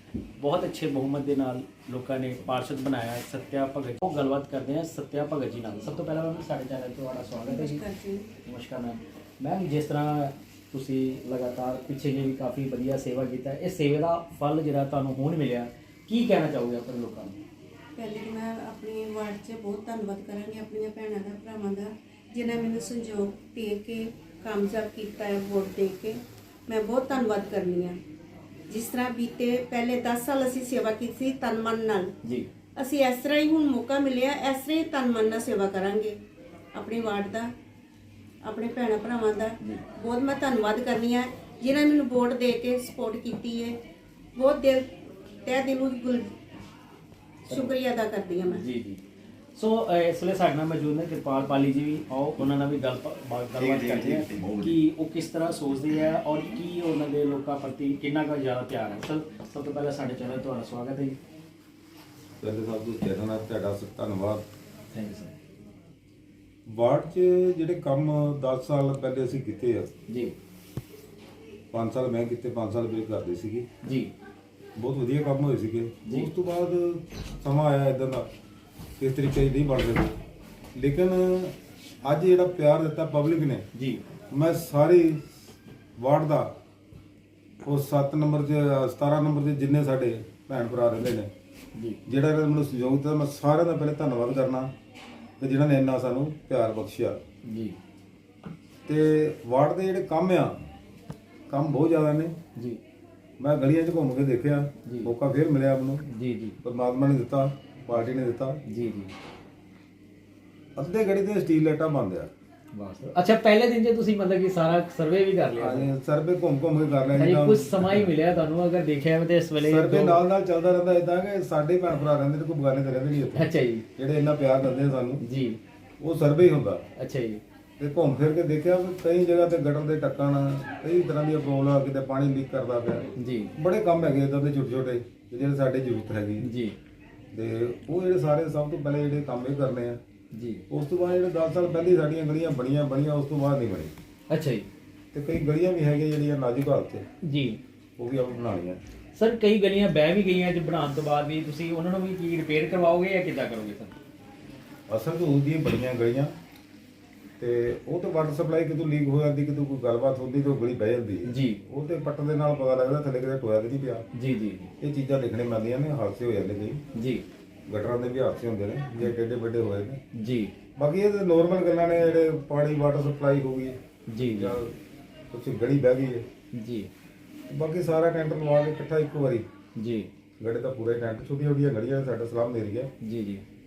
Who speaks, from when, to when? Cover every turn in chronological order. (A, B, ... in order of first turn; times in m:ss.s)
0:00.4-0:07.8 A
0:07.5-0:08.3 B
0:08.4-0:17.4 A
0:18.0-0:27.9 B
0:28.7-0:32.1 B
0:32.2-0:32.5 A
0:32.8-0:36.1 B
0:36.7-0:37.5 B
0:38.4-0:43.8 B
0:44.4-0:44.8 B
0:45.4-0:46.3 B
0:47.4-0:47.7 A
0:47.5-0:48.6 B
0:48.5-0:49.0 A
0:49.5-1:01.2 A
0:53.6-0:54.7 C
1:02.4-1:04.4 C
1:04.9-1:05.3 A
1:06.7-1:09.9 C
1:10.1-1:10.4 A
1:11.7-1:13.7 C
1:13.8-1:14.1 A
1:14.8-1:18.2 C
1:19.0-1:20.1 C
1:20.7-1:23.6 C
1:23.7-1:24.0 A
1:24.3-1:25.4 C
1:26.0-1:26.5 C
1:27.6-1:31.3 C
1:32.1-1:34.7 C
1:35.4-1:37.2 C
1:37.4-1:37.8 A
1:38.8-1:40.5 C
1:41.5-1:42.3 C
1:43.4-1:46.0 C
1:46.1-1:46.6 A
1:46.6-1:48.6 C
1:48.6-1:49.1 A
1:50.8-1:52.3 C
1:52.7-1:55.9 A
1:55.6-1:58.1 C
1:57.1-2:00.2 A
1:59.6-2:05.2 C
2:03.3-2:03.8 A
2:05.2-2:05.6 A
2:06.0-2:06.8 C
2:07.0-2:07.4 A
2:07.8-2:16.5 C
2:13.2-2:13.5 A
2:16.4-2:16.8 A
2:17.3-2:20.0 C
2:20.3-2:20.6 A
2:20.7-2:23.9 C
2:24.3-2:24.7 A
2:25.1-2:27.0 C
2:27.2-2:27.6 A
2:28.0-2:28.8 C
2:29.1-2:34.0 A
2:34.9-2:36.3 C
2:37.4-2:44.0 C
2:41.2-2:41.6 A
2:44.1-2:44.7 A
2:44.8-2:46.8 C
2:46.9-2:47.2 A
2:47.7-2:50.0 C
2:50.1-2:50.5 A
2:50.8-2:53.8 C
2:54.1-2:54.6 A
2:54.3-2:54.8 C
2:55.3-2:56.2 C
2:56.5-2:56.9 A
2:57.5-2:59.4 C
2:59.8-3:00.1 A
3:00.4-3:02.9 C
3:03.0-3:03.4 A